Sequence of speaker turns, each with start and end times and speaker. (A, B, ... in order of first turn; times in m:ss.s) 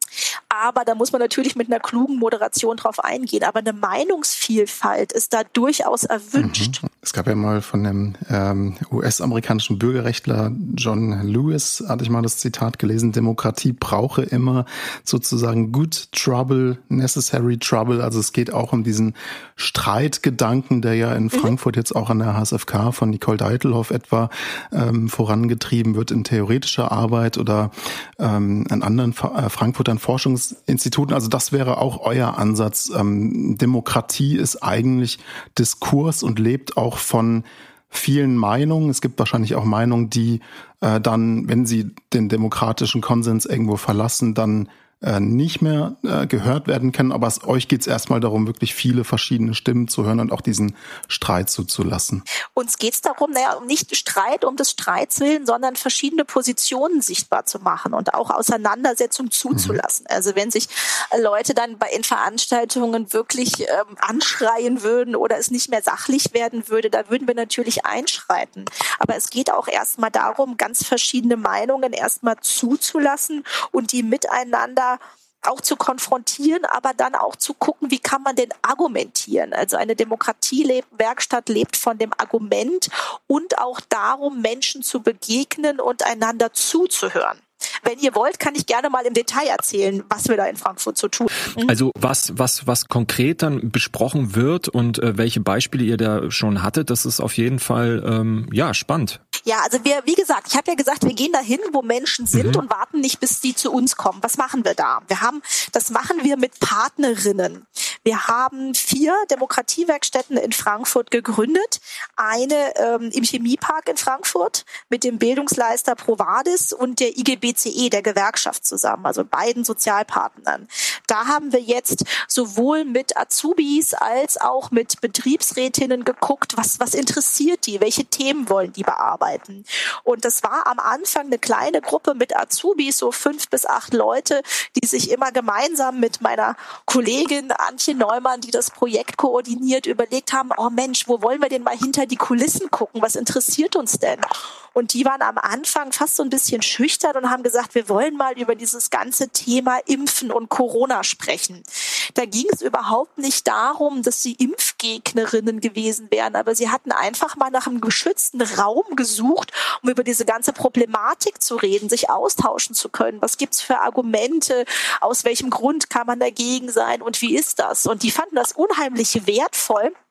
0:00.5-0:06.8 A
0:06.4-0:52.2 B
0:52.6-1:31.7 A
0:59.5-0:59.8 B
1:31.6-1:39.2 C
1:39.5-2:49.9 A
1:42.3-1:42.6 C